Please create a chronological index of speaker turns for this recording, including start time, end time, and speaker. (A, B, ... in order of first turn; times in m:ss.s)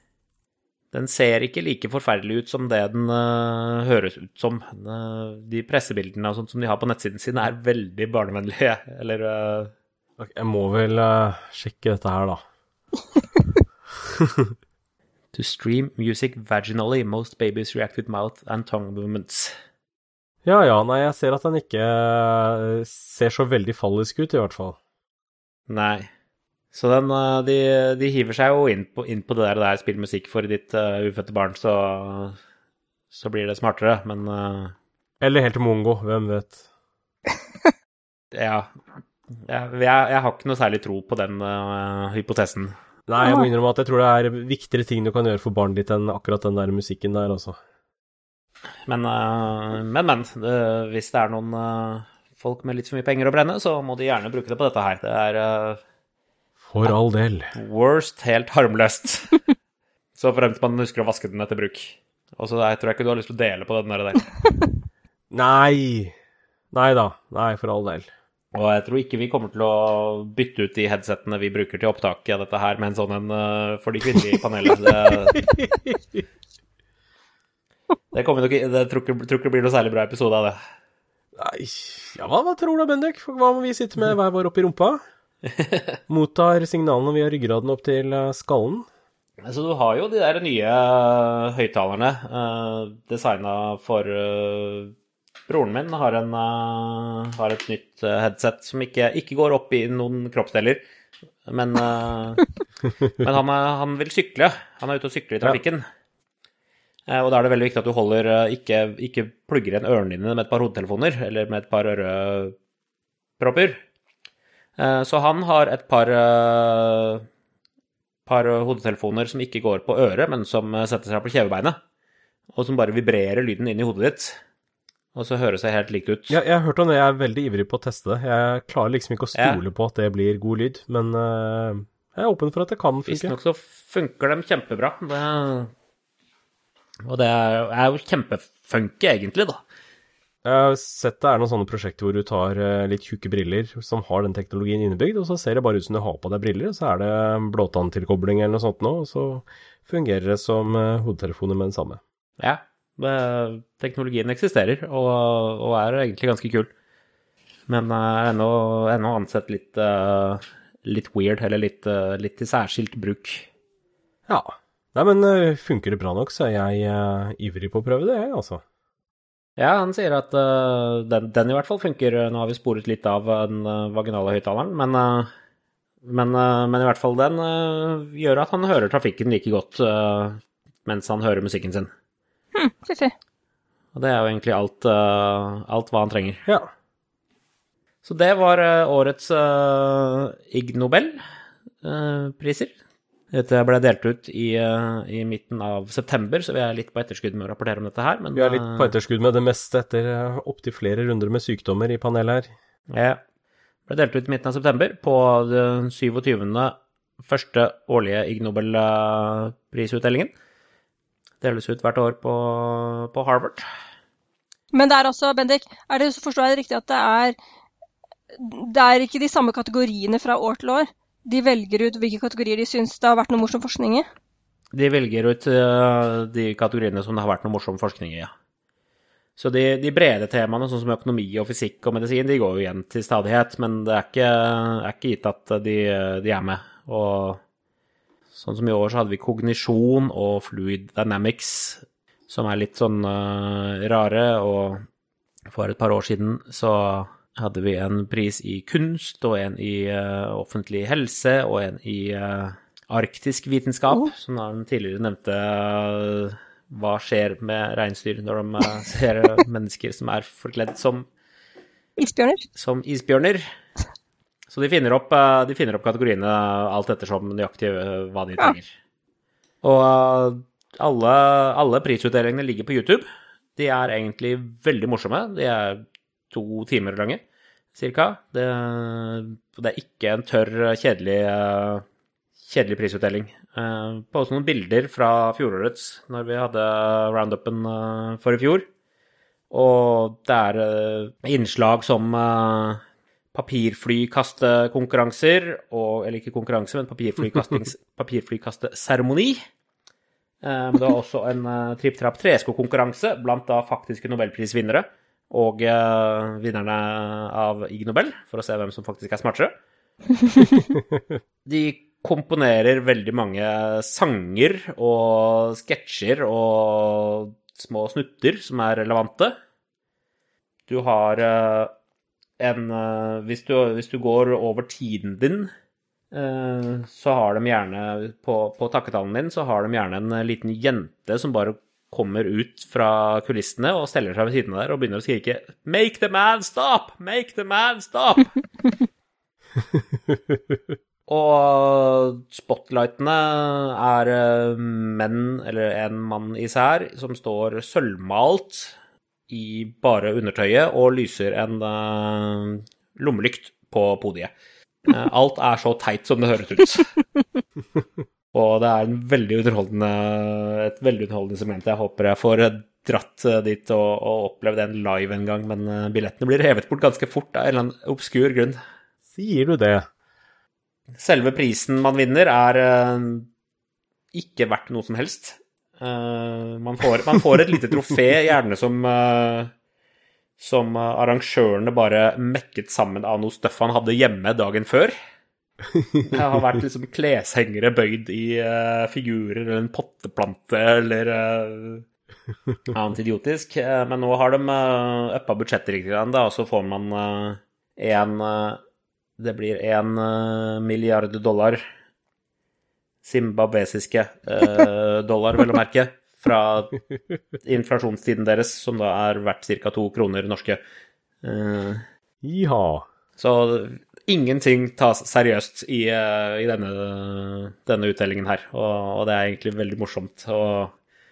0:00.9-0:09.7 A
0:10.2-0:12.4 B
0:14.0-0:14.6 B
0:15.3-0:19.6 A
0:20.4-0:24.8 B
0:25.7-0:26.1 A
0:26.7-0:32.4 A
0:33.1-0:34.7 A
0:35.2-0:36.6 B
0:38.3-0:38.7 A
0:39.5-0:42.8 A
0:43.1-0:47.6 B
0:43.2-0:43.5 C
0:48.9-0:55.8 A
0:56.6-0:57.5 B
0:57.5-0:59.4 A
1:00.2-1:04.3 A
1:05.3-1:06.2 B
1:06.7-1:08.1 B
1:08.5-1:15.4 A
1:15.4-1:16.2 B
1:18.1-1:20.6 A
1:21.4-1:25.0 B
1:25.5-1:26.0 A
1:26.1-1:28.9 B
1:29.4-1:34.9 A
1:35.5-1:40.8 A
1:41.5-1:42.5 A
1:43.2-1:45.8 A
1:47.1-1:52.6 A
1:53.4-1:53.8 A
1:54.8-1:57.2 A
1:58.3-2:01.8 A
2:02.5-2:04.4 A
2:05.2-2:06.4 A
2:06.3-2:13.3 B
2:09.4-2:09.6 A
2:13.1-2:15.7 A
2:17.1-2:19.6 A
2:20.4-2:32.0 B
2:32.4-2:36.7 A
2:37.7-2:43.5 A
2:44.3-2:48.6 B
2:49.6-2:55.3 A
2:56.0-3:01.9 A
3:02.6-3:03.1 C
3:04.0-3:06.4 A
3:08.0-3:11.2 A
3:11.8-3:12.7 A
3:13.3-3:18.9 A
3:18.4-3:22.5 B
3:22.9-3:23.2 A
3:23.9-3:30.3 A
3:31.4-3:33.6 A
3:34.7-3:37.4 C
3:38.3-3:44.1 C
3:44.7-3:48.3 A
3:49.4-3:57.4 A
3:58.3-4:04.8 A
4:05.5-4:21.1 A
4:22.0-4:22.5 C
4:22.6-4:23.4 A
4:24.5-4:28.8 A
4:29.6-4:37.2 A
4:37.8-4:41.8 A
4:42.5-4:48.7 A
4:49.5-4:52.8 A
4:53.3-4:59.4 A
5:00.4-5:09.5 A
5:10.8-5:11.1 B
5:11.5-5:19.4 A
5:20.7-5:21.7 A
5:22.4-5:25.5 A
5:26.1-5:38.3 A
5:40.1-5:40.6 B
5:41.1-5:48.8 A
5:49.3-5:54.3 A
5:54.8-5:56.9 A
5:58.3-6:08.6 A
6:09.1-6:09.9 B
6:11.0-6:13.3 A
6:14.1-6:19.5 A
6:20.4-6:25.0 A
6:25.8-6:26.0 B
6:26.0-6:31.9 A
6:32.7-6:38.6 A
6:39.2-6:41.6 A
6:43.0-6:46.8 A
6:47.4-6:50.6 A
6:51.2-6:51.8 A
6:52.2-6:52.9 B
6:53.2-7:00.7 A